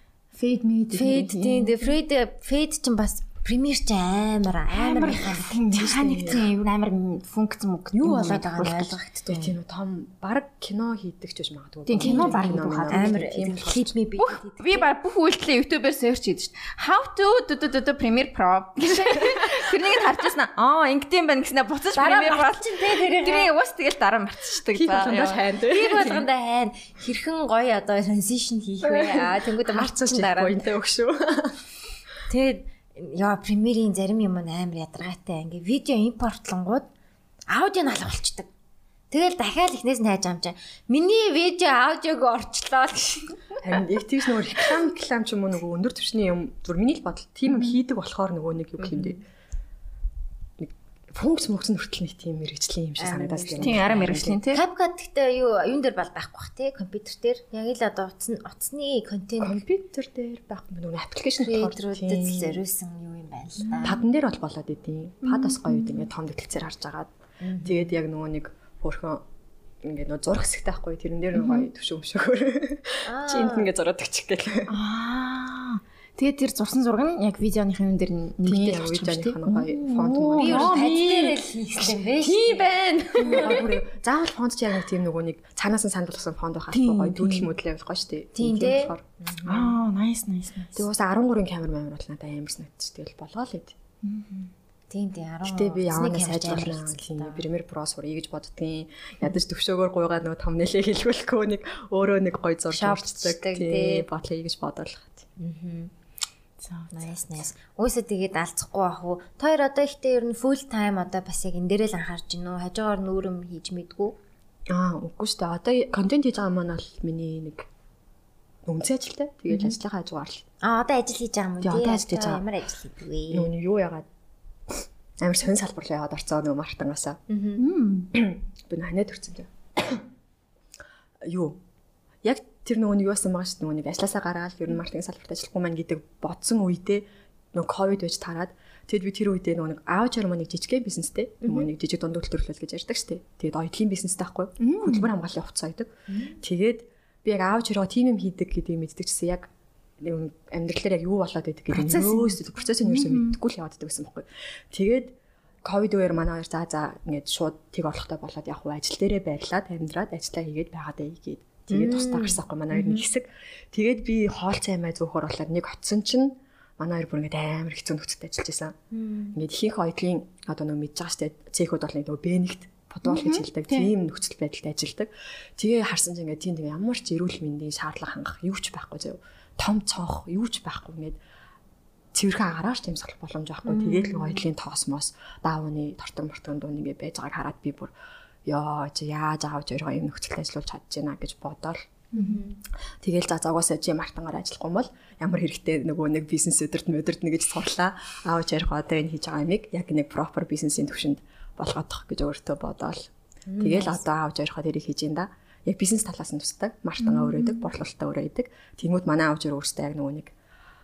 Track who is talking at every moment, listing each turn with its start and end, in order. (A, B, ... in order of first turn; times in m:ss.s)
0:00.3-0:01.8 A
0:00.9-0:06.4 B
0:04.7-0:09.5 A
0:05.1-0:06.4 C
0:08.0-0:09.4 B
0:09.3-0:13.9 C
0:11.9-0:13.2 A
0:12.0-0:14.9 B
0:14.2-0:25.4 A
0:21.9-0:23.5 B
0:24.7-0:26.3 C
0:25.6-0:30.6 B
0:28.8-0:31.6 C
0:32.3-0:36.9 B
0:37.5-0:38.5 B
0:39.1-0:43.4 B
0:43.6-0:49.2 C
0:48.8-0:49.2 B
0:50.6-0:54.4 C
0:53.0-0:59.6 B
0:53.6-0:54.6 A
0:59.4-1:02.6 C
1:01.4-1:04.0 B
1:03.6-1:04.0 A
1:03.8-1:07.1 C
1:05.2-1:06.1 A
1:07.4-1:07.9 B
1:07.6-1:09.2 C
1:09.8-1:14.7 C
1:11.4-1:11.7 A
1:13.1-1:13.7 B
1:14.7-1:20.9 A
1:18.4-1:21.3 C
1:20.4-1:23.6 B
1:22.1-1:23.7 A
1:23.2-1:29.7 C
1:26.7-1:27.5 A
1:28.4-1:29.7 B
1:29.4-1:30.8 A
1:30.7-1:33.7 C
1:34.0-1:34.5 A
1:34.9-1:37.4 B
1:35.4-1:45.3 C
1:42.7-1:44.1 B
1:45.4-1:45.9 B
1:46.6-1:47.1 A
1:46.9-1:54.2 B
1:54.7-1:57.7 C
1:58.6-2:00.4 C
1:59.5-1:59.8 B
2:00.6-2:03.5 B
2:01.6-2:02.4 C
2:03.3-2:04.0 C
2:05.2-2:07.2 C
2:07.3-2:07.6 B
2:07.6-2:08.1 A
2:08.1-2:10.0 C
2:11.2-2:11.6 C
2:12.2-2:29.5 C
2:21.4-2:21.7 B
2:24.6-2:25.1 A
2:26.1-2:26.4 B
2:30.0-2:48.8 C
2:31.7-2:33.3 A
2:41.7-2:42.4 B
2:42.7-2:43.0 A
2:48.9-2:49.4 B
2:49.3-3:01.2 C
2:53.0-2:53.9 A
3:02.1-3:07.9 C
3:03.7-3:04.4 B
3:08.4-3:12.0 C
3:12.2-3:12.5 B
3:13.0-3:30.3 C
3:23.5-3:24.0 B
3:27.0-3:27.7 A